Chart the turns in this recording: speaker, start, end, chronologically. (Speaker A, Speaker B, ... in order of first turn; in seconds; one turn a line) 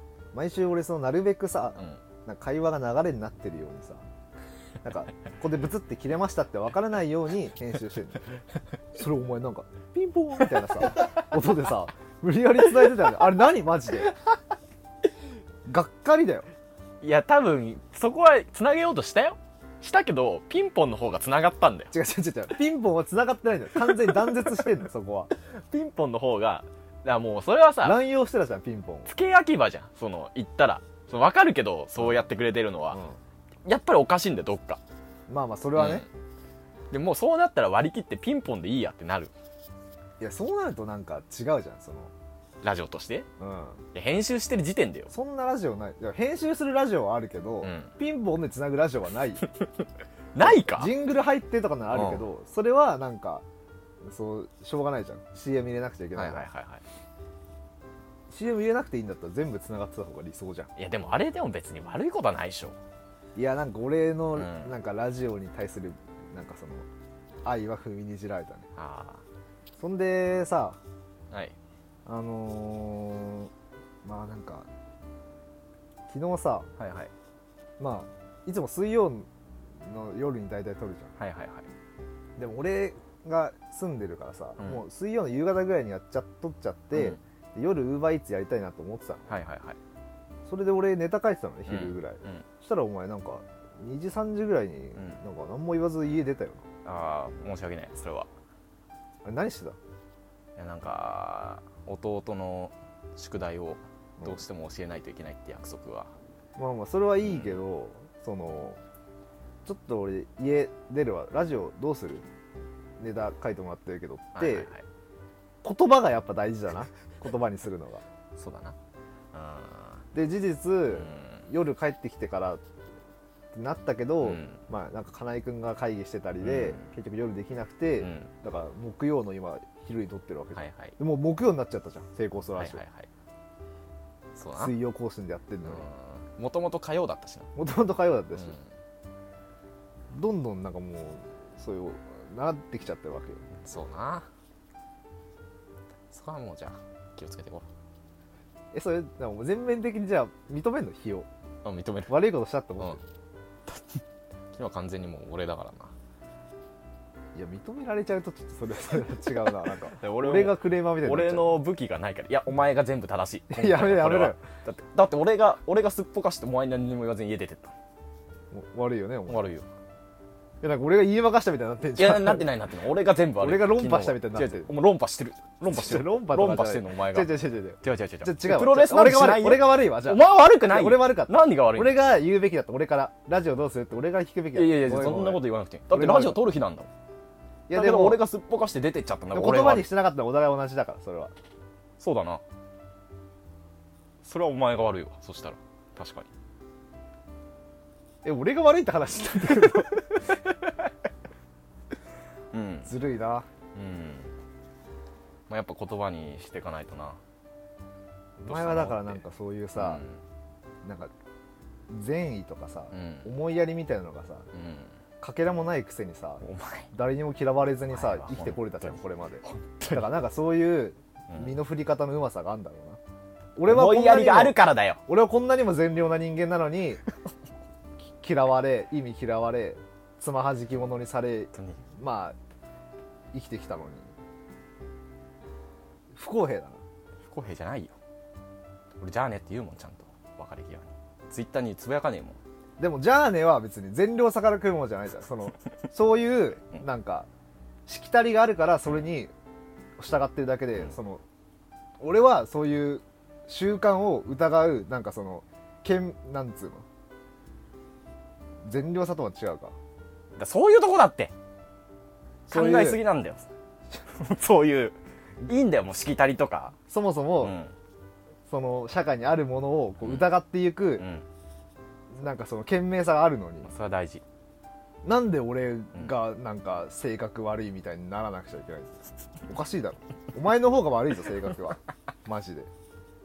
Speaker A: 0.3-4.1
Speaker A: 4.8-8.3
Speaker A: 8.9-14.1
Speaker A: 15.7-16.5
Speaker B: 17.0-21.9
Speaker A: 21.9-25.3
Speaker B: 24.1-24.3
Speaker B: 25.4-28.0
Speaker A: 27.8-29.1
Speaker B: 29.1-33.0
Speaker A: 32.0-32.3
Speaker A: 32.9-33.2
Speaker B: 33.6-34.8
Speaker A: 35.3-36.1
Speaker B: 35.8-36.1
Speaker B: 36.9-39.3
Speaker A: 40.2-42.1
Speaker B: 42.6-43.3
Speaker A: 43.4-43.8
Speaker B: 43.9-45.1
Speaker A: 45.1-49.5
Speaker B: 47.6-47.9
Speaker B: 49.6-50.9
Speaker A: 50.4-53.5
Speaker B: 51.9-52.2
Speaker A: 54.0-56.5
Speaker B: 56.1-56.8
Speaker A: 58.3-60.7
Speaker B: 60.8-62.8
Speaker A: 63.4-66.8
Speaker B: 64.3-64.7
Speaker A: 67.4-68.7
Speaker B: 68.7-69.2
Speaker A: 69.8-70.8
Speaker B: 71.3-71.5
Speaker A: 72.0-73.5
Speaker A: 74.0-74.7
Speaker A: 76.1-76.7
Speaker B: 76.8-77.1
Speaker A: 77.8-81.1
Speaker B: 81.2-81.7
Speaker A: 82.4-89.4
Speaker B: 84.6-84.8
Speaker B: 86.9-87.2
Speaker B: 89.3-89.8
Speaker A: 90.5-96.7
Speaker B: 91.7-92.4
Speaker B: 94.9-95.2
Speaker B: 96.8-98.3
Speaker A: 99.2-99.8
Speaker B: 100.5-106.1
Speaker A: 106.6-108.8
Speaker B: 107.2-107.5
Speaker A: 109.6-112.2
Speaker A: 113.0-114.7
Speaker B: 114.3-114.8
Speaker A: 115.6-118.0
Speaker B: 118.3-118.8
Speaker B: 119.3-120.0
Speaker A: 120.1-122.6
Speaker B: 120.9-121.5
Speaker A: 123.5-132.8
Speaker B: 124.2-124.6
Speaker B: 126.4-126.9
Speaker B: 128.0-128.3
Speaker B: 130.5-130.9
Speaker B: 132.6-133.1
Speaker B: 134.3-134.7
Speaker A: 134.5-135.9
Speaker B: 135.6-137.5
Speaker A: 137.5-138.6
Speaker B: 138.4-138.6
Speaker A: 140.1-143.5
Speaker B: 143.6-144.3
Speaker B: 146.1-147.7
Speaker A: 148.7-151.3
Speaker B: 151.6-152.3
Speaker A: 152.1-153.0
Speaker B: 153.7-155.9
Speaker A: 157.3-161.5
Speaker B: 159.8-167.7
Speaker A: 163.5-164.4
Speaker A: 168.5-169.4
Speaker B: 169.3-169.7
Speaker A: 170.6-172.5
Speaker B: 171.9-182.0
Speaker A: 173.4-174.7
Speaker A: 175.7-186.4
Speaker B: 184.5-186.9
Speaker A: 187.7-188.2
Speaker B: 187.7-189.9
Speaker A: 189.3-191.3
Speaker B: 192.0-192.4
Speaker B: 194.2-196.3
Speaker A: 198.2-200.4
Speaker B: 202.5-202.9
Speaker A: 202.8-203.5
Speaker B: 203.7-204.3
Speaker B: 205.5-207.2
Speaker A: 208.4-210.0
Speaker B: 208.5-209.2
Speaker B: 209.8-210.2
Speaker A: 210.8-211.1
Speaker A: 211.9-214.5
Speaker B: 212.9-213.3
Speaker B: 214.5-215.0
Speaker A: 215.2-223.0
Speaker B: 216.4-216.9
Speaker B: 217.9-220.1
Speaker B: 221.3-221.5
Speaker A: 223.6-227.0
Speaker B: 223.7-225.0
Speaker A: 228.0-232.3
Speaker B: 231.5-231.8
Speaker A: 233.3-234.1
Speaker A: 236.1-236.8
Speaker B: 237.2-237.9
Speaker B: 239.0-242.4
Speaker A: 242.8-247.3
Speaker A: 247.9-249.3
Speaker A: 250.0-251.2
Speaker A: 252.0-256.8
Speaker A: 258.6-259.7
Speaker B: 260.3-261.3
Speaker B: 262.5-263.5
Speaker A: 262.5-263.0
Speaker B: 264.1-266.8
Speaker A: 266.9-267.6
Speaker B: 267.4-267.7
Speaker A: 268.5-271.1
Speaker B: 270.0-270.3
Speaker B: 271.0-271.2
Speaker A: 272.1-273.7
Speaker B: 273.6-274.2
Speaker A: 275.0-282.7